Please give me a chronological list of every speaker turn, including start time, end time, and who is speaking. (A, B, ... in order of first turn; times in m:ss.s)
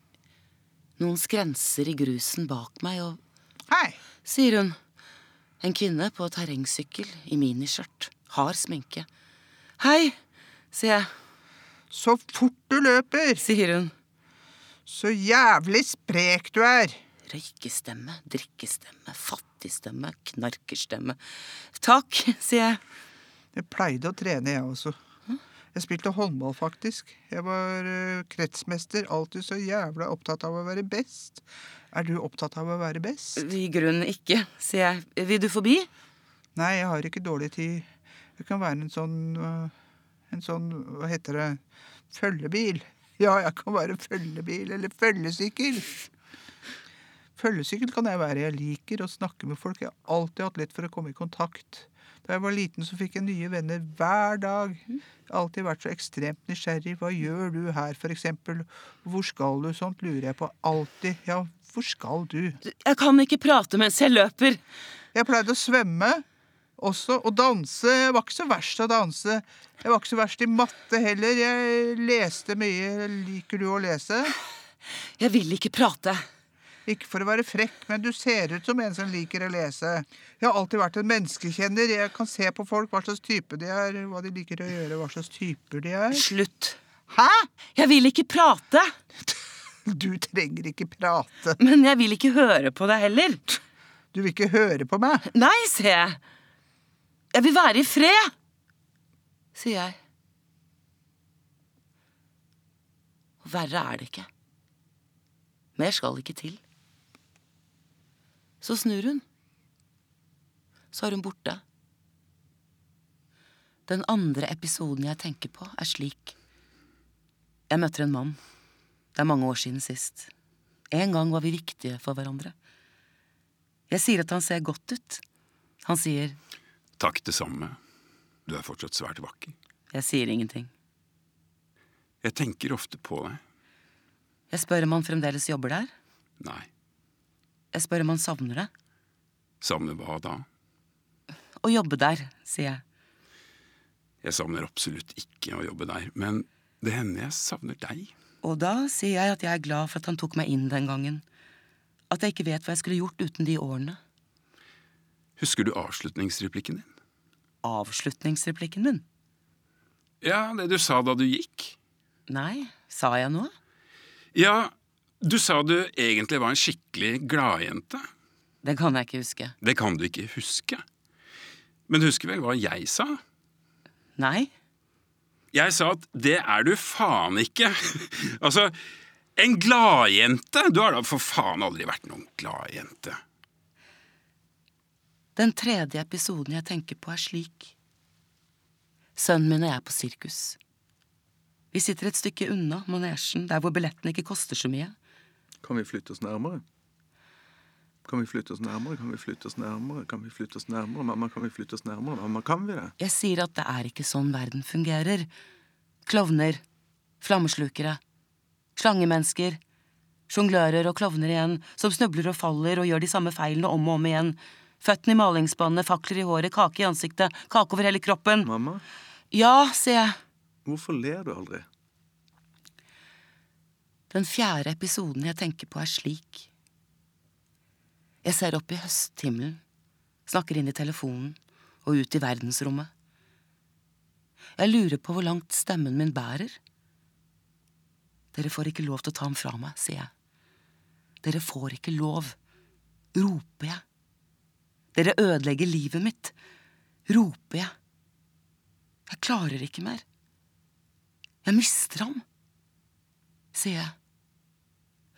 0:01.0-0:03.2 A
0:03.7-0:04.0 B
0:04.2-0:04.8 A
0:05.6-0:09.1 A
0:09.8-0:10.1 A
0:10.7-0:11.1 A
0:11.9-0:13.4 B
0:13.4-0:13.9 A
0:14.8-0:17.0 B
0:17.3-0:22.8 A
0:23.6-0:25.0 B
0:25.7-0:33.4 B
0:33.4-0:35.9 A
0:36.5-0:39.7 B
0:40.3-0:41.6 B
0:42.1-0:46.0 B
0:47.4-1:02.6 B
1:02.6-1:04.6 A
1:05.1-1:06.2 B
1:06.8-1:14.3 B
1:15.2-1:16.2 A
1:16.9-1:26.2 B
1:26.1-1:26.8 A
1:27.1-1:27.5 B
1:27.8-1:28.9 A
1:29.9-1:31.6 B
1:31.6-1:33.4 A
1:34.1-1:35.2 B
1:35.3-1:36.2 A
1:37.3-1:38.3 A
1:39.6-1:40.0 A
1:43.4-1:44.3 A
1:45.8-1:46.6 A
1:48.6-1:49.2 A
1:50.9-1:51.6 A
1:53.9-1:56.4 A
1:57.7-1:58.4 A
1:59.1-2:00.3 A
2:00.9-2:02.5 A
2:03.9-2:05.2 A
2:05.8-2:06.4 A
2:07.0-2:07.8 C
2:08.5-2:09.5 C
2:09.9-2:10.7 A
2:12.2-2:13.4 C
2:14.5-2:15.9 A
2:16.4-2:16.7 C
2:17.7-2:18.7 A
2:19.6-2:20.4 C
2:21.6-2:22.8 A
2:24.2-2:28.1 C
2:28.4-2:31.2 A
2:32.1-2:34.0 A
2:35.4-2:36.8 C
2:37.6-2:39.0 A
2:40.2-2:41.8 C
2:42.3-2:43.5 A
2:44.3-2:48.0 C
2:48.6-2:49.5 A
2:49.6-2:50.8 C
2:51.9-2:53.2 C
2:54.2-2:54.5 A
2:55.5-2:58.7 C
2:59.4-3:03.2 C
3:05.4-3:07.8 A
3:09.2-3:10.6 A
3:11.7-3:14.9 A
3:15.6-3:16.6 D
3:18.0-3:22.9 D
3:23.0-3:25.3 A
3:26.0-3:26.6 A
3:27.2-3:28.0 A
3:28.8-3:29.6 A
3:30.3-3:38.5 A
3:38.4-3:38.8 D
3:39.3-3:40.2 A
3:40.7-3:41.7 D
3:44.1-3:46.5 A
3:48.2-3:49.6 A
3:50.3-3:52.9 A
3:54.6-3:56.6 A
3:58.3-4:00.1 A
4:01.2-4:02.4 A
4:03.2-4:03.8 A
4:04.9-4:06.3 A
4:07.1-4:07.7 A
4:09.1-4:10.0 A
4:11.4-4:12.2 A
4:13.5-4:13.9 A